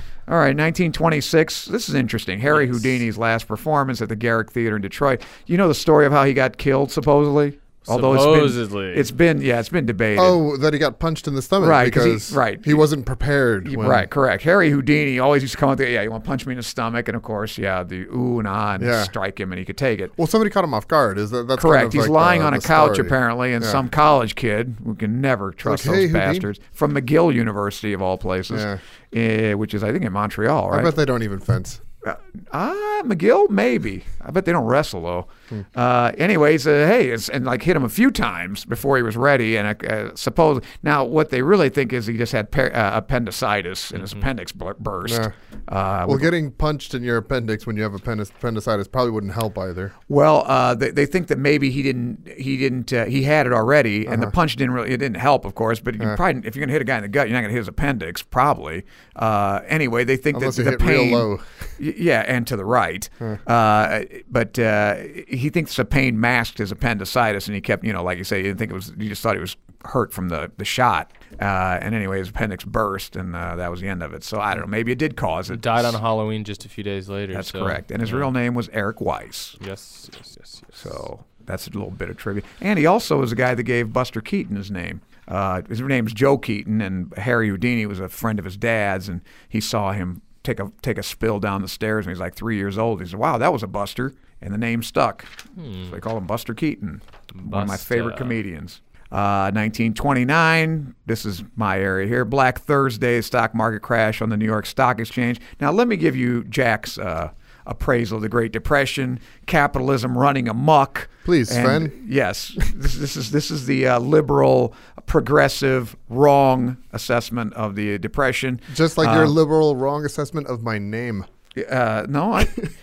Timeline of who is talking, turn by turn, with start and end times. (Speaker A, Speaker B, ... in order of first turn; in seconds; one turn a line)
Speaker A: 0.3-10.4
Speaker B: 2.5-2.8
Speaker B: 7.9-9.1
Speaker C: 10.2-14.1
Speaker A: 11.6-12.8
Speaker A: 13.7-20.1
Speaker C: 18.8-19.1
Speaker C: 20.2-23.8
Speaker A: 21.6-30.9
Speaker C: 25.6-26.5
Speaker C: 28.5-28.8
Speaker C: 30.7-31.8
Speaker A: 32.0-46.3
Speaker B: 43.9-44.2
Speaker C: 45.0-45.3
Speaker C: 46.0-50.0
Speaker A: 50.1-76.0
Speaker C: 54.1-54.4
Speaker C: 60.3-61.7
Speaker B: 75.5-78.3
Speaker A: 77.3-79.6
Speaker B: 79.6-81.0
Speaker A: 80.8-95.3
Speaker B: 95.6-96.0
Speaker A: 95.9-119.3
Speaker B: 97.3-98.4
Speaker C: 111.2-111.9
Speaker C: 118.7-121.3
Speaker A: 121.5-122.7